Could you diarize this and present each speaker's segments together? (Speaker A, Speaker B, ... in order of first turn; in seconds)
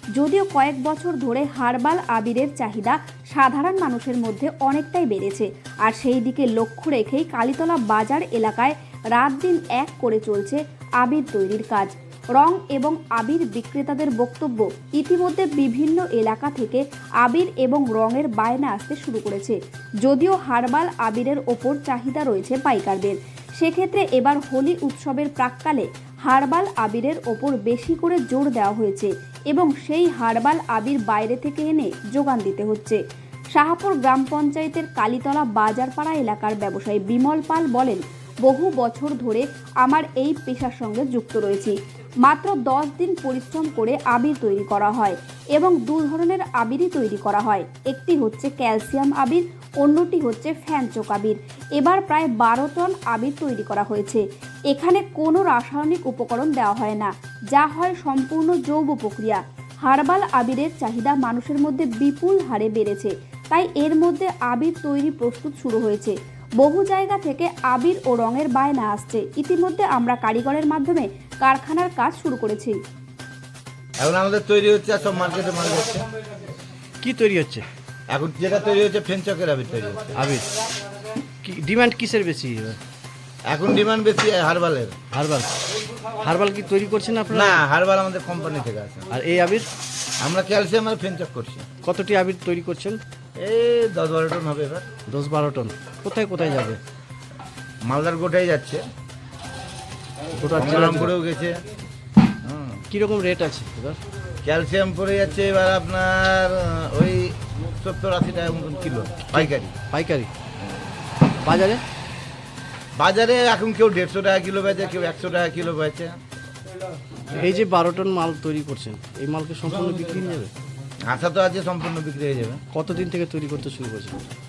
Speaker A: 0.2-33.0, 33.5-72.8
Speaker B: 74.0-76.1, 78.1-80.1, 83.5-85.0, 87.3-89.2, 90.2-91.7, 93.4-94.8, 97.9-98.8, 100.5-101.6, 102.4-102.8, 104.4-109.8, 113.0-116.2, 121.1-122.6
Speaker C: 77.0-77.7, 80.1-80.5, 81.4-82.8, 85.1-87.6, 89.1-89.7, 91.8-93.0, 95.1-96.8, 100.3-101.1, 102.9-104.0, 109.3-110.3, 111.4-111.8, 117.3-120.5, 122.7-124.2